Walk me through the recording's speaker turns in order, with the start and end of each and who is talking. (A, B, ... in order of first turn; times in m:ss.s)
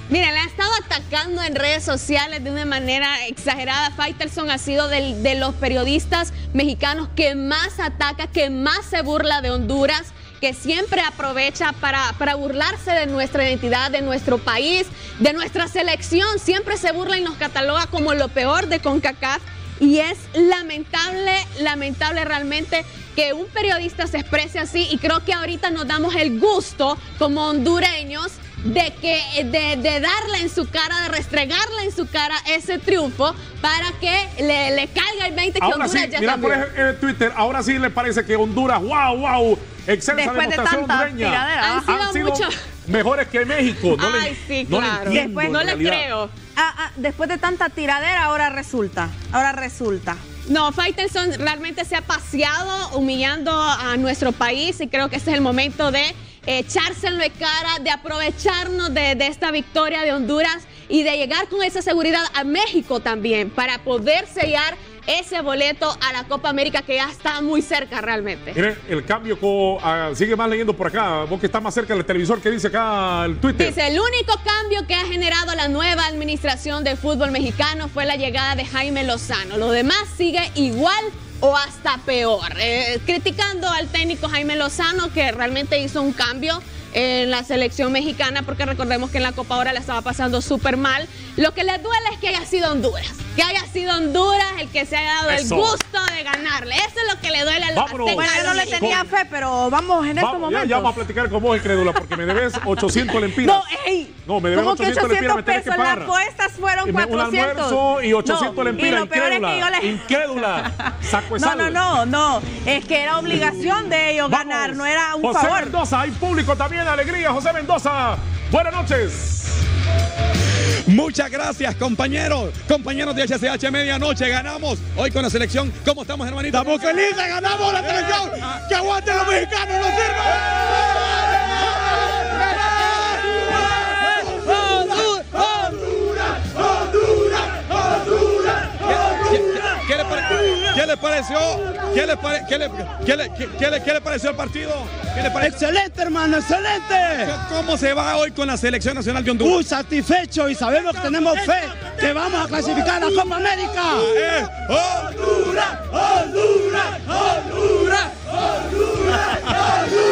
0:00.1-0:36.6 A
0:35.6-0:46.1 B
0:40.1-0:41.9 C
0:41.6-0:42.6 A
0:44.0-0:46.3 A
0:45.1-0:45.7 C
0:46.5-0:50.2 C
0:50.5-1:08.6 A
1:08.5-1:13.8 B
1:13.6-1:39.1 A
1:35.3-1:35.8 B
1:37.7-1:39.1 B
1:38.1-1:41.0 C
1:40.2-1:46.1 B
1:41.9-1:55.8 C
1:46.8-1:51.8 B
1:54.3-1:59.6 B
2:00.9-2:07.0 D
2:06.5-2:10.4 E
2:14.7-2:15.4 E
2:18.8-2:25.6 D
2:25.4-2:27.3 E
2:27.2-2:29.6 D
2:29.4-2:34.1 E
2:33.9-2:35.6 D